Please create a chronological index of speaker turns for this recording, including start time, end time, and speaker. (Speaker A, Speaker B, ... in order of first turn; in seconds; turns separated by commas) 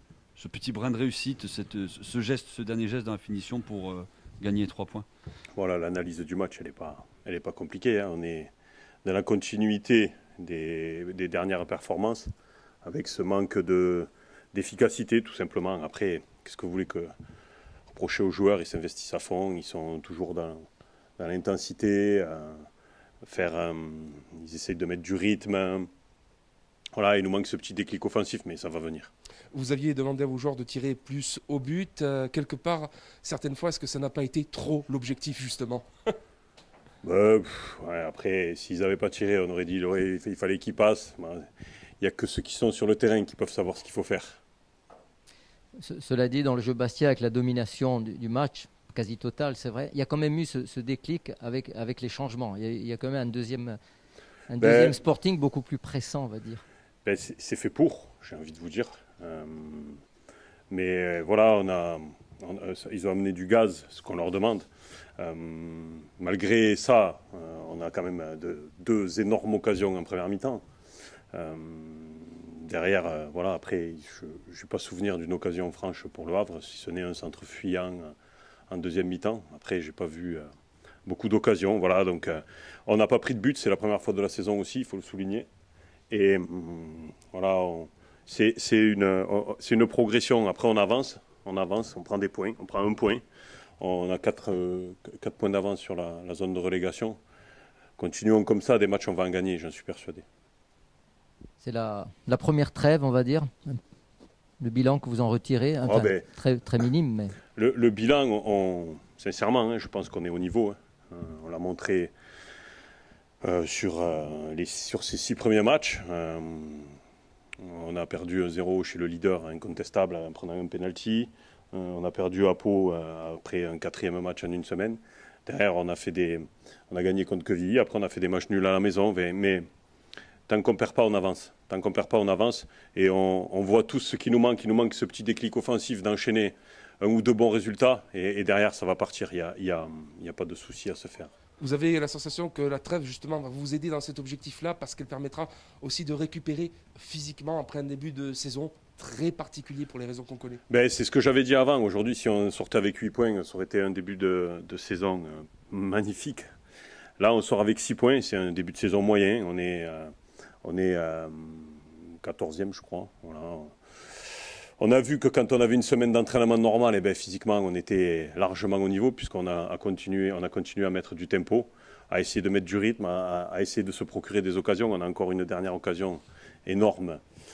Speaker A: 0.4-5.1, Speaker B: 5.5-8.5, Speaker B: 9.1-12.3, Speaker B: 12.8-17.1, Speaker B: 17.9-20.6, Speaker B: 21.2-22.7, Speaker B: 23.2-25.9, Speaker B: 26.9-29.1, Speaker C: 29.5-36.1, Speaker B: 37.0-41.5, Speaker B: 42.0-44.4, Speaker D: 45.8-53.8, Speaker D: 54.5-56.6, Speaker B: 54.6-55.0, Speaker B: 57.0-60.0, Speaker B: 60.7-64.7, Speaker B: 65.2-70.6, Speaker B: 71.3-78.1, Speaker B: 78.7-80.5, Speaker B: 81.1-85.5, Speaker B: 86.1-93.2, Speaker B: 93.8-97.2, Speaker B: 98.0-100.2, Speaker D: 101.6-103.8, Speaker D: 104.6-107.4, Speaker B: 105.8-106.3, Speaker B: 107.6-112.1, Speaker B: 113.4-116.9, Speaker B: 117.6-129.7, Speaker B: 130.5-141.3, Speaker C: 141.6-150.6, Speaker B: 150.7-156.4, Speaker B: 157.2-160.1, Speaker B: 160.6-163.7, Speaker B: 164.8-177.2